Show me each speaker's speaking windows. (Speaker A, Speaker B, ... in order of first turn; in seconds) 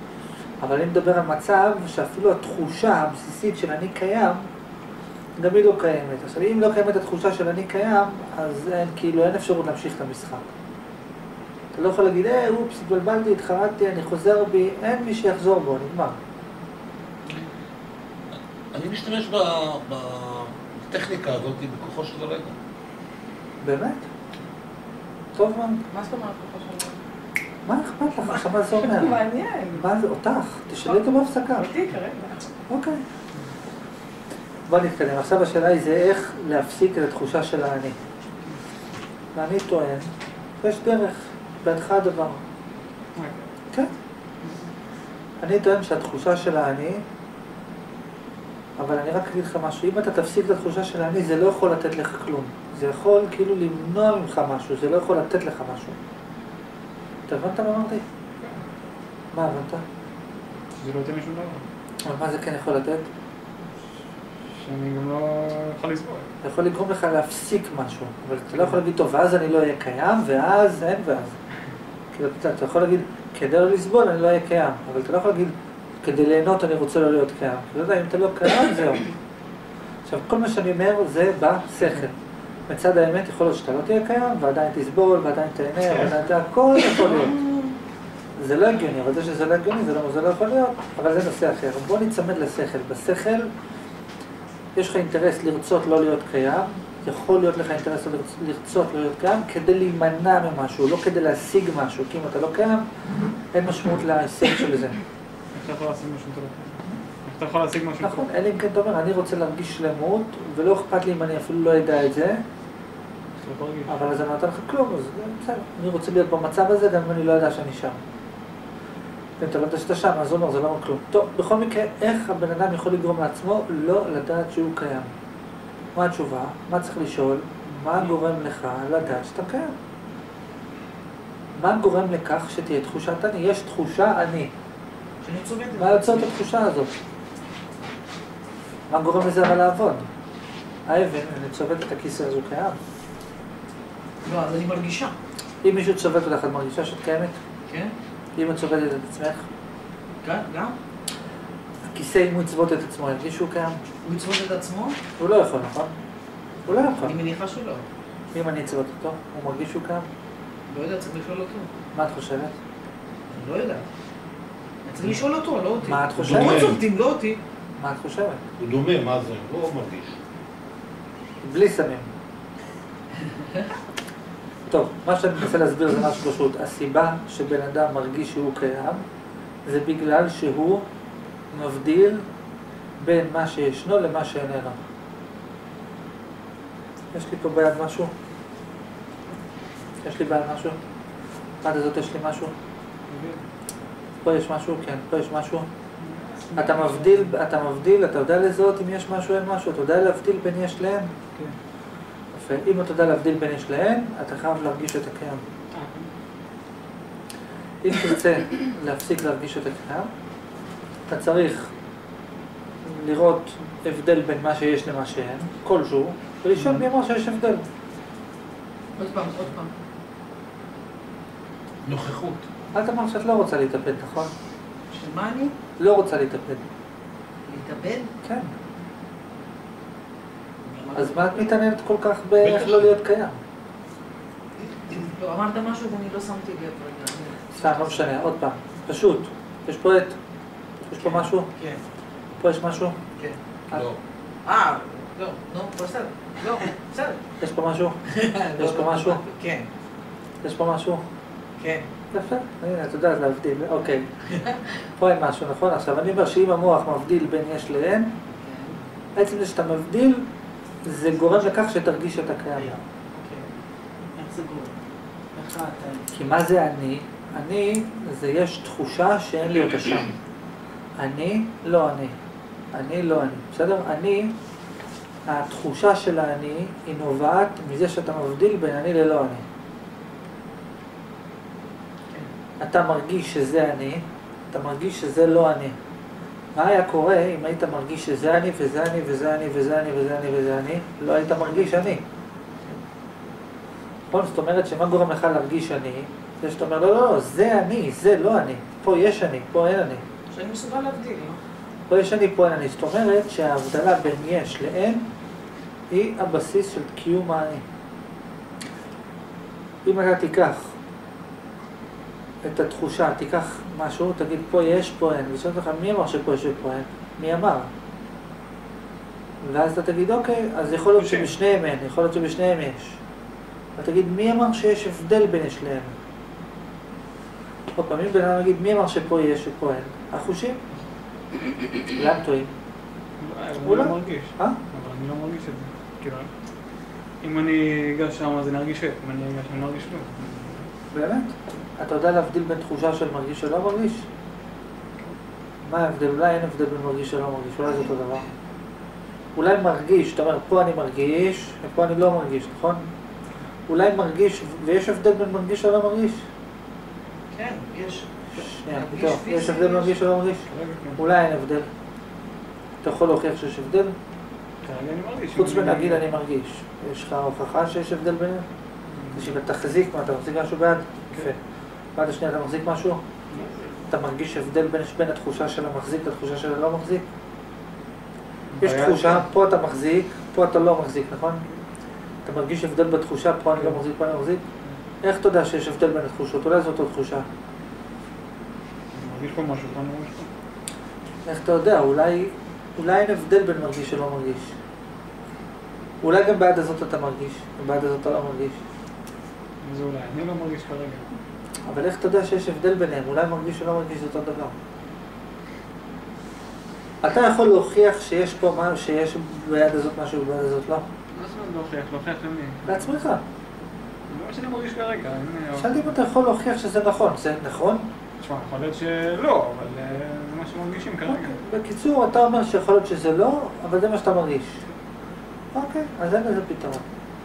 Speaker A: 0.6-4.5, 5.4-10.5, 11.7-16.1, 23.6-24.0, 25.3-25.8, 27.6-31.7, 32.7-33.0, 34.7-38.0, 39.3-42.4, 45.4-47.0, 48.8-56.0, 57.3-58.0, 59.3-59.8, 62.0-63.1, 66.4-71.4, 72.1-79.1, 80.0-82.1, 82.7-87.4, 88.4-93.5, 94.7-102.9, 103.5-105.0, 108.0-112.4, 113.9-118.0, 119.4-125.1, 125.9-129.7, 131.5-134.5, 135.8-136.9, 138.9-140.1, 140.9-142.8, 145.6-147.4, 148.4-149.4, 151.9-153.8, 155.2-155.9, 156.7-157.2, 158.3-160.1, 161.9-162.5, 165.8-166.7, 167.8-168.4, 171.4-172.1, 174.7-179.0, 179.7-180.9, 181.5-182.2, 183.0-184.8, 187.1-188.1, 190.0-190.8, 191.6-192.5, 194.2-195.7, 196.6-201.1, 202.3-205.4, 207.8-210.1, 211.1-211.7, 212.8-217.6, 222.7-224.3, 225.8-226.6, 228.2-228.5, 230.9-233.4, 237.5-240.2, 240.8-241.5, 242.4-243.0, 247.4-249.2, 250.4-251.0, 252.1-254.1, 255.0-258.1, 259.1-260.3, 260.8-262.8, 266.1-270.1, 271.0-272.1, 272.7-274.3, 275.2-279.4, 282.6-285.8, 286.5-292.0, 294.1-300.0, 301.9-305.1, 305.9-307.6, 309.8-310.7, 312.4-317.7, 319.4-323.0, 323.8-325.9, 327.7-330.6, 331.9-332.5, 333.6-334.6, 340.9-344.1, 345.6-348.3, 349.4-352.9, 353.7-356.2, 358.3-361.7, 362.8-363.9, 365.3-368.4, 369.1-371.4, 371.9-373.0, 373.9-377.0, 378.6-381.5, 382.2-384.4, 385.0-387.2, 391.2-394.6, 396.0-398.6, 401.7-404.5, 407.0-410.9, 412.7-413.2, 415.5-417.9, 421.1-424.6, 425.5-426.9
Speaker B: 18.7-22.5, 166.2-166.8, 168.6-170.2, 221.8-222.4, 232.4-232.9, 243.7-244.0
Speaker C: 25.9-26.9, 28.8-29.8, 31.6-32.4
Speaker D: 58.4-58.6, 60.8-61.6, 64.5-66.3, 105.5-108.3, 113.4-114.0, 193.1-193.4, 196.0-197.4, 205.7-206.1, 216.6-216.8, 320.9-321.4, 333.2-336.3, 337.2-340.7, 360.5-361.0, 364.6-366.1, 368.9-369.4, 373.3-373.6, 378.5-379.2, 388.9-390.3, 399.6-401.1, 411.1-413.0, 414.1-415.9, 418.2-421.4
Speaker E: 135.2-136.3, 144.2-145.1, 147.7-147.9, 150.2-150.8, 154.0-155.0, 157.0-157.8, 160.7-161.7, 163.3-163.9, 164.8-167.4, 173.3-173.7, 219.0-219.7, 224.9-225.6, 227.4-228.1, 230.6-231.5, 234.9-238.1, 241.0-241.8, 244.4-247.2, 248.1-249.7, 251.6-251.9, 254.3-254.6, 258.4-258.8, 262.6-263.5, 264.1-264.7, 265.3-266.1, 300.3-301.4, 357.3-360.0